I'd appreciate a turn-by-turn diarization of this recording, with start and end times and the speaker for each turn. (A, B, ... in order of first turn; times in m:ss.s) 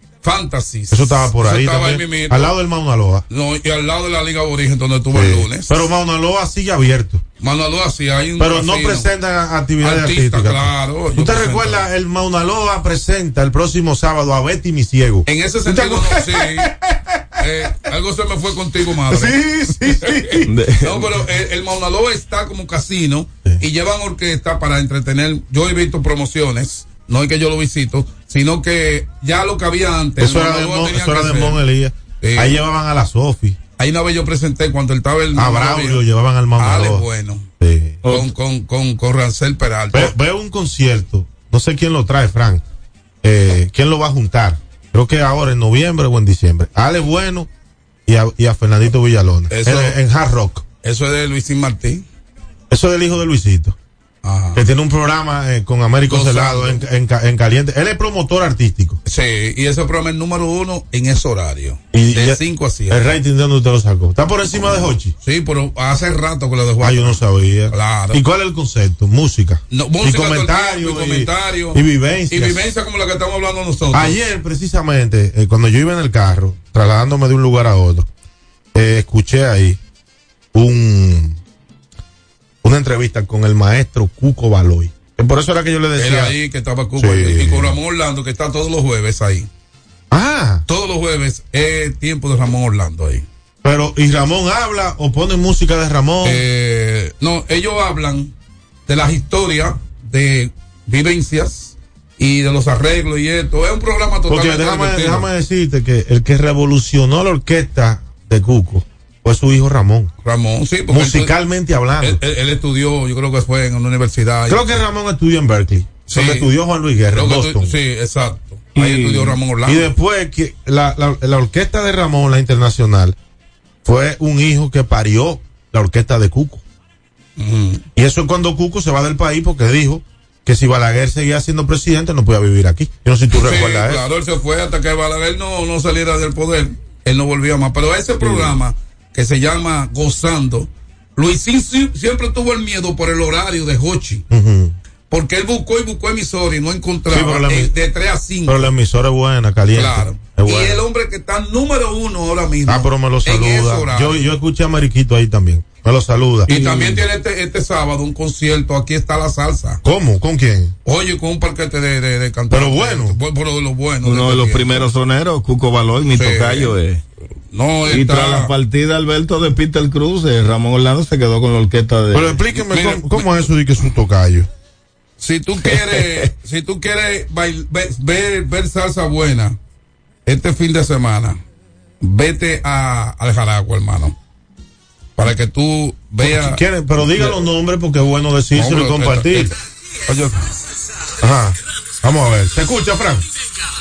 0:00.2-0:02.5 A
0:00.9-0:03.2 B
0:03.3-0:05.8 A
0:05.1-0:07.2 B
0:07.4-0:09.1 A
0:08.4-0:17.0 B
0:09.8-0:11.9 A
0:15.3-0:16.7 A
0:17.4-0:31.6 A
0:19.1-0:20.5 B
0:20.5-0:21.1 C
0:30.2-0:33.6 B
0:32.2-0:32.6 A
0:33.8-0:36.0 A
0:35.3-0:37.1 B
0:36.6-0:37.5 A
0:37.6-0:38.1 B
0:38.0-0:40.1 A
0:39.9-0:42.6 B
0:43.2-0:47.5 B
0:48.1-0:50.7 B
0:49.5-0:50.0 A
0:50.8-0:52.1 A
0:52.7-0:53.8 B
0:54.2-0:54.6 A
0:54.6-0:59.0 B
0:56.1-0:56.8 A
0:59.0-1:03.2 A
1:01.9-1:05.2 B
1:05.2-1:07.2 A
1:06.8-1:12.6 B
1:07.7-1:08.2 A
1:09.7-1:14.2 A
1:13.9-1:18.1 B
1:18.7-1:19.8 B
1:20.5-1:21.4 B
1:22.6-1:26.4 B
1:26.0-1:29.5 A
1:27.0-1:27.8 B
1:30.1-1:30.6 B
1:30.7-1:33.3 A
1:33.6-1:36.4 B
1:36.2-1:38.3 A
1:38.9-1:45.3 A
1:44.3-1:50.1 B
1:50.2-1:51.4 A
1:50.9-1:52.2 B
1:52.0-1:54.8 A
1:54.5-1:57.8 B
1:56.1-1:56.5 A
1:57.1-1:59.9 A
1:58.8-1:59.4 C
1:59.6-2:03.2 B
2:03.8-2:06.6 B
2:07.4-2:07.8 A
2:08.0-2:14.0 B
2:13.3-2:24.2 A
2:18.2-2:18.6 B
2:24.3-2:24.8 B
2:25.1-2:28.7 A
2:27.1-2:27.7 B
2:28.4-2:30.8 B
2:29.7-2:34.3 A
2:32.7-2:36.6 B
2:36.5-2:39.8 A
2:36.5-2:37.0 C
2:39.8-2:40.8 B
2:40.8-2:44.8 A
2:42.5-2:43.2 B
2:44.0-2:47.0 C
2:46.1-2:46.8 A
2:47.5-2:48.5 A
2:47.9-2:52.4 C
2:52.1-2:54.5 B
2:52.6-2:53.5 A
2:55.2-2:59.6 A
3:00.3-3:01.4 A
3:02.0-3:04.2 A
3:05.2-3:06.6 A
3:06.2-3:09.5 B
3:08.6-3:09.6 A
3:10.1-3:10.5 A
3:11.2-3:13.2 B